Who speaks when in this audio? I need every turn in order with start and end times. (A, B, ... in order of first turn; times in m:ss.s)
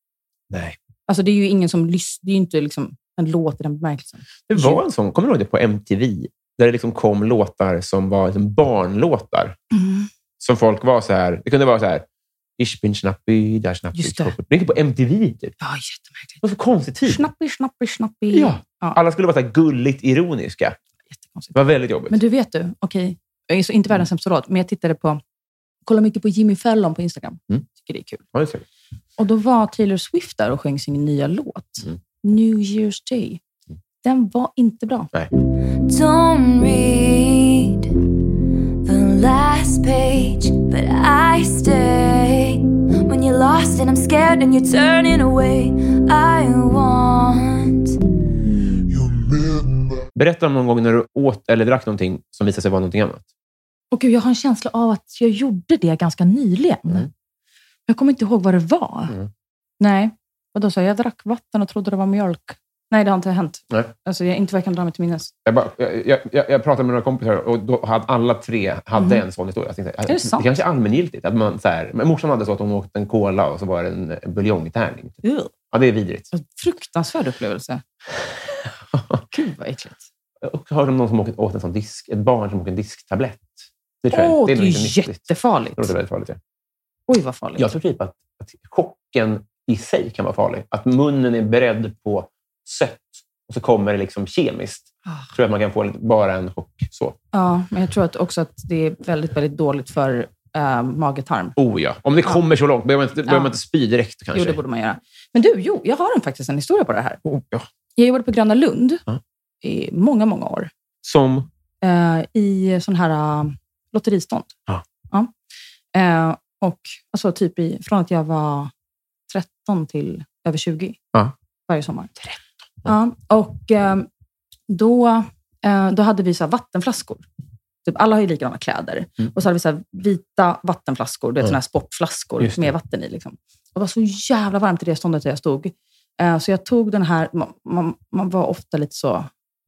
0:00.5-0:00.8 A
0:01.1-0:04.8 B
0:04.5-0:09.6 A
0:09.7-0:10.1 B
0:10.4-0:12.0 A
0:12.6-0:15.5 A
0:13.9-0:14.3 B
0:15.6-0:16.4 B
0:16.4-0:17.2 A
0:17.0-0:19.0 B
0:18.3-0:20.8 A
0:21.1-0:21.5 B
0:21.5-0:22.2 A
0:22.1-0:25.2 B
0:25.8-0:28.2 B
0:28.3-0:28.6 A
0:29.2-0:33.4 B
0:34.0-0:35.1 B
0:35.4-0:37.9 C
0:38.8-0:48.0 C
0:50.1-0:53.2 A
0:53.9-0:57.1 B
0:57.9-0:59.1 B
0:59.8-1:05.3 B
1:05.4-1:16.3 A
1:09.0-1:09.2 B
1:10.0-1:10.6 B
1:15.2-1:15.5 B
1:16.3-1:17.8 B
1:18.9-1:19.2 A
1:19.3-1:20.0 B
1:20.4-1:26.4 A
1:24.1-1:25.9 B
1:27.1-1:27.7 B
1:27.6-1:37.2 A
1:37.3-1:41.5 B
1:41.6-1:44.6 A
1:43.3-1:43.5 B
1:44.3-1:47.2 B
1:47.2-1:47.7 A
1:48.0-1:49.0 B
1:49.6-1:50.7 B
1:51.0-1:51.5 A
1:51.8-1:54.5 B
1:55.9-1:58.7 B
1:59.3-2:01.0 B
2:01.7-2:04.1 B
2:04.7-2:07.2 B
2:07.8-2:19.3 B
2:12.4-2:12.7 A